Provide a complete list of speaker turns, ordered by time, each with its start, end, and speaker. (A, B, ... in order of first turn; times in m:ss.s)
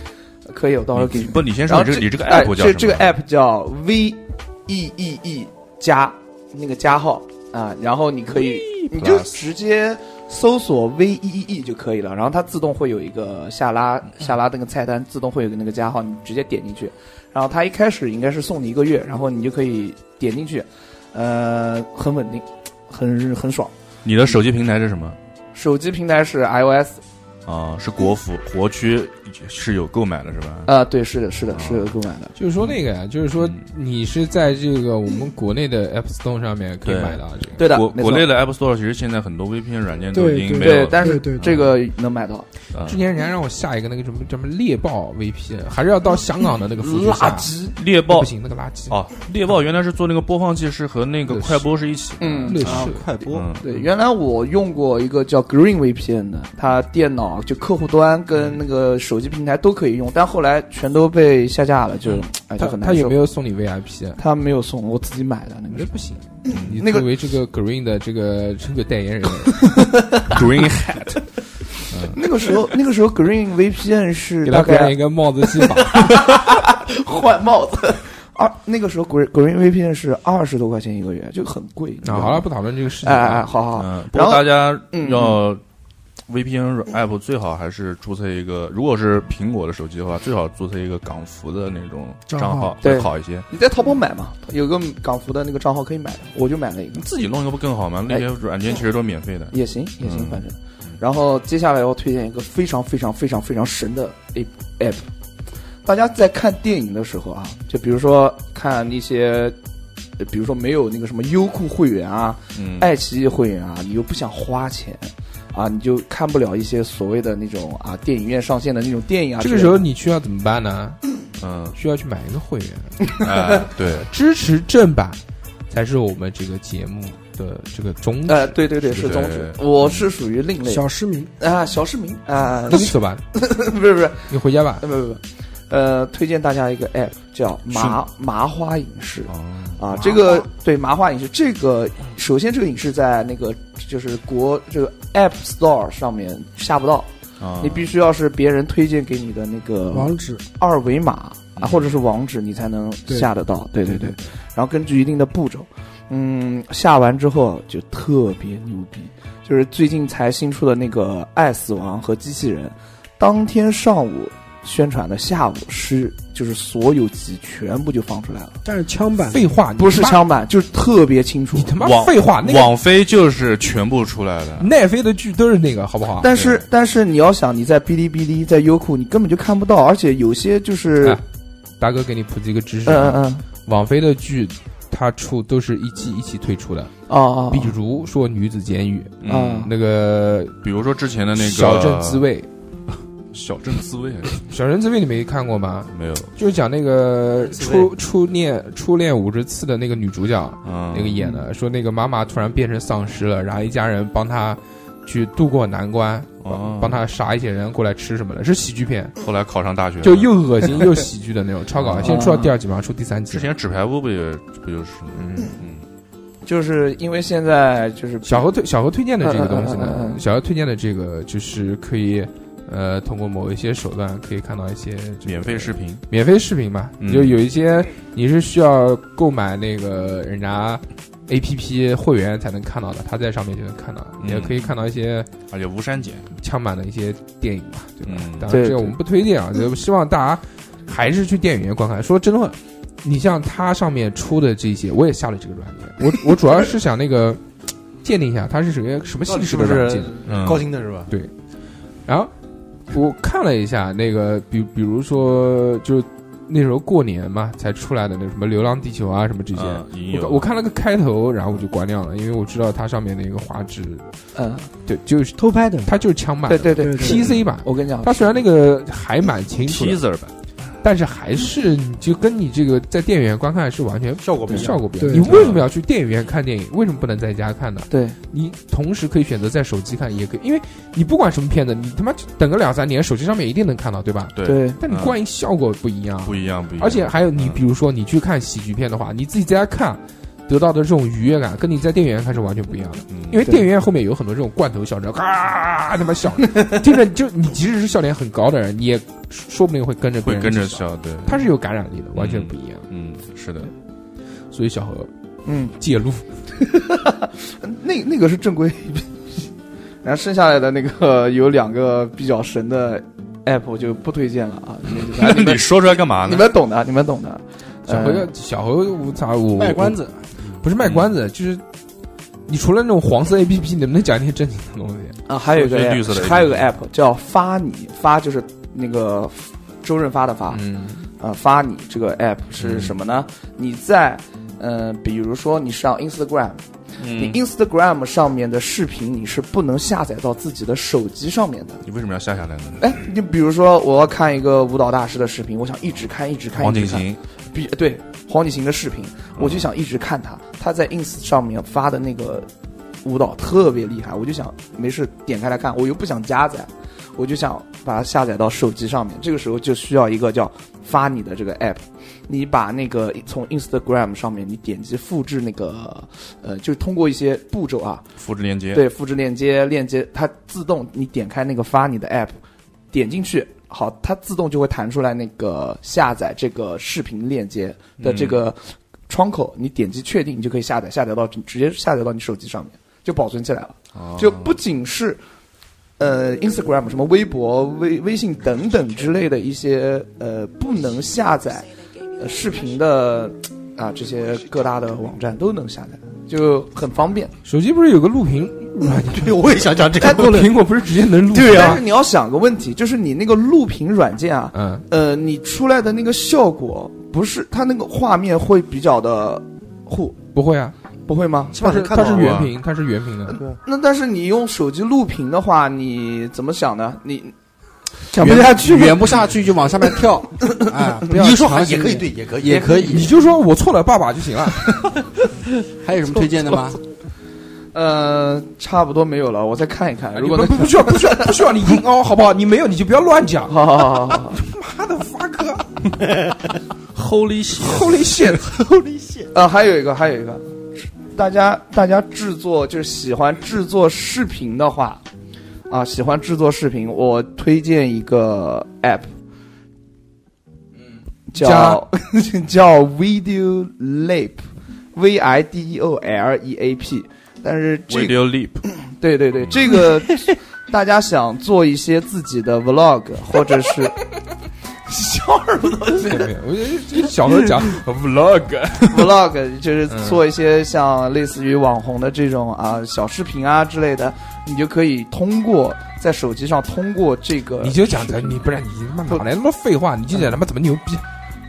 0:00.5-0:23.7 A
0:00.9-0:03.2 B
0:08.8-0:09.3 B
0:24.0-0:25.2 B
0:25.5-0:27.0 A
0:27.4-0:30.7 B
0:30.6-0:32.3 A
0:31.5-0:32.0 B
0:32.4-0:37.6 C
0:33.4-0:33.6 B
0:36.8-0:41.8 B
0:37.6-0:38.3 A
0:40.1-0:41.6 D
0:40.6-0:42.4 A
0:42.7-0:43.0 B
0:42.8-0:47.5 C
0:46.8-0:47.7 A
0:47.8-0:48.3 B
0:48.1-0:49.0 C
0:48.9-0:53.9 B
0:51.3-0:51.6 C
0:52.2-0:52.7 A
0:52.4-0:53.1 C
0:52.6-0:53.4 E
0:53.6-1:03.2 A
1:02.6-1:04.2 C
1:04.2-1:05.9 A
1:05.7-1:09.7 C
1:06.4-1:07.1 A
1:06.5-1:06.8 B
1:09.7-1:10.4 A
1:10.2-1:11.2 B
1:11.9-1:12.2 B
1:12.1-1:25.4 A
1:14.4-1:16.4 C
1:22.0-1:23.5 C
1:23.7-1:25.6 B
1:26.3-1:33.5 B
1:32.3-1:32.8 D
1:32.8-1:37.3 A
1:36.9-1:41.0 B
1:39.5-1:45.1 A
1:45.8-1:49.6 A
1:50.2-1:59.8 A
1:52.5-1:52.9 B
1:59.4-2:01.0 C
2:01.4-2:01.8 B
2:01.7-2:03.0 C
2:03.1-2:03.4 A
2:03.2-2:04.1 B
2:03.9-2:05.2 C
2:05.7-2:09.2 C
2:08.2-2:10.8 A
2:09.0-2:10.1 B
2:10.6-2:11.3 D
2:11.4-2:48.6 A
2:12.7-2:13.2 C
2:14.3-2:14.8 C
2:19.3-2:19.8 B
2:27.4-2:27.9 B
2:29.9-2:30.4 D
2:31.6-2:32.0 B
2:33.9-2:34.1 D
2:48.6-2:49.6 D
2:49.3-2:50.2 C
2:49.8-2:51.7 A
2:51.5-2:52.7 C
2:51.8-2:54.7 B
2:54.6-2:56.3 C
2:56.2-3:01.2 A
2:56.3-2:56.6 B
3:01.8-3:07.0 C
3:02.8-3:03.4 A
3:07.1-3:07.8 A
3:07.5-3:10.5 C
3:09.2-3:09.7 B
3:09.2-3:09.7 A
3:10.6-3:12.3 B
3:11.3-3:12.5 C
3:13.3-3:14.4 B
3:14.4-3:29.2 C
3:15.9-3:16.3 B
3:17.5-3:17.9 F
3:20.6-3:21.4 B
3:26.4-3:27.0 B
3:29.2-3:30.3 B
3:30.0-3:33.5 C
3:31.8-3:32.2 B
3:32.0-3:32.5 A
3:33.3-3:35.8 B
3:35.1-3:35.5 C
3:36.4-3:38.5 A
3:38.2-3:55.3 C
3:39.2-3:40.2 A
3:45.2-3:46.0 B
3:47.0-3:47.4 B
3:54.2-3:54.7 B
3:55.5-3:56.3 B
3:56.4-4:07.4 C
3:58.0-3:58.5 B
3:58.5-3:58.9 A
4:08.0-4:10.2 C
4:09.2-4:11.1 F
4:10.2-4:10.6 B
4:12.0-4:12.3 C
4:12.9-4:24.1 C
4:19.5-4:20.5 B
4:24.3-4:24.7 A
4:24.8-4:30.0 C
4:25.4-4:25.9 D
4:26.5-4:28.4 A
4:26.8-4:27.2 D
4:27.0-4:27.4 B
4:29.6-4:30.3 B
4:30.8-5:02.8 C
4:34.2-4:35.5 F
4:35.0-4:35.4 D
4:35.1-4:35.7 B
4:37.9-4:38.2 A
4:44.4-4:45.2 B
4:44.4-4:44.8 A
4:46.2-4:47.6 B
4:53.1-4:53.4 B
5:00.2-5:01.4 B
5:02.1-5:03.7 B
5:04.5-5:05.1 C
5:05.4-5:05.7 A
5:05.8-5:06.3 C
5:06.5-5:09.5 A
5:10.0-5:18.3 A
5:14.9-5:16.5 B
5:17.9-5:20.0 C
5:19.5-5:20.6 E
5:20.6-5:21.6 C
5:20.8-5:21.1 B
5:22.5-5:25.2 C
5:25.3-5:30.6 A
5:25.5-5:26.7 B
5:30.5-5:31.1 C
5:31.2-5:41.8 A
5:32.6-5:33.0 B
5:37.0-5:37.4 B
5:41.8-5:43.0 B
5:42.8-5:52.5 A
5:46.6-5:47.2 B
5:49.4-5:49.7 B
5:53.0-6:08.0 A
6:08.2-6:08.8 B
6:08.7-6:12.4 A
6:12.9-6:25.2 A
6:18.0-6:18.4 B
6:23.9-6:24.6 B
6:26.0-6:37.3 A
6:37.4-6:41.8 C
6:38.8-6:40.6 F
6:40.0-6:40.4 A
6:41.3-6:41.8 F
6:41.3-6:50.2 A
6:44.5-6:44.8 C
6:50.3-6:50.7 C
6:51.1-6:51.6 A
6:51.5-6:52.5 F
6:51.6-6:53.4 C
6:52.0-6:52.5 B
6:53.3-6:53.6 F
6:53.6-6:57.3 A
6:58.1-6:58.5 A
6:58.1-6:59.1 D
6:58.2-7:03.1 E
7:01.1-7:03.0 F
7:02.4-7:03.0 A
7:02.9-7:04.8 C
7:05.8-7:06.8 E
7:07.7-7:11.5 A
7:10.1-7:15.8 C
7:13.5-7:14.4 A
7:16.9-7:18.0 B
7:17.5-7:18.5 C
7:19.3-7:25.0 A
7:25.7-7:29.1 A
7:31.3-7:38.2 A
7:31.3-7:31.8 C
7:37.9-7:38.6 B
7:38.8-7:44.0 A
7:39.4-7:39.8 B
7:44.8-7:46.3 A
7:46.0-7:49.2 C
7:48.9-7:58.5 A
7:49.9-7:50.2 C
7:57.6-8:01.0 C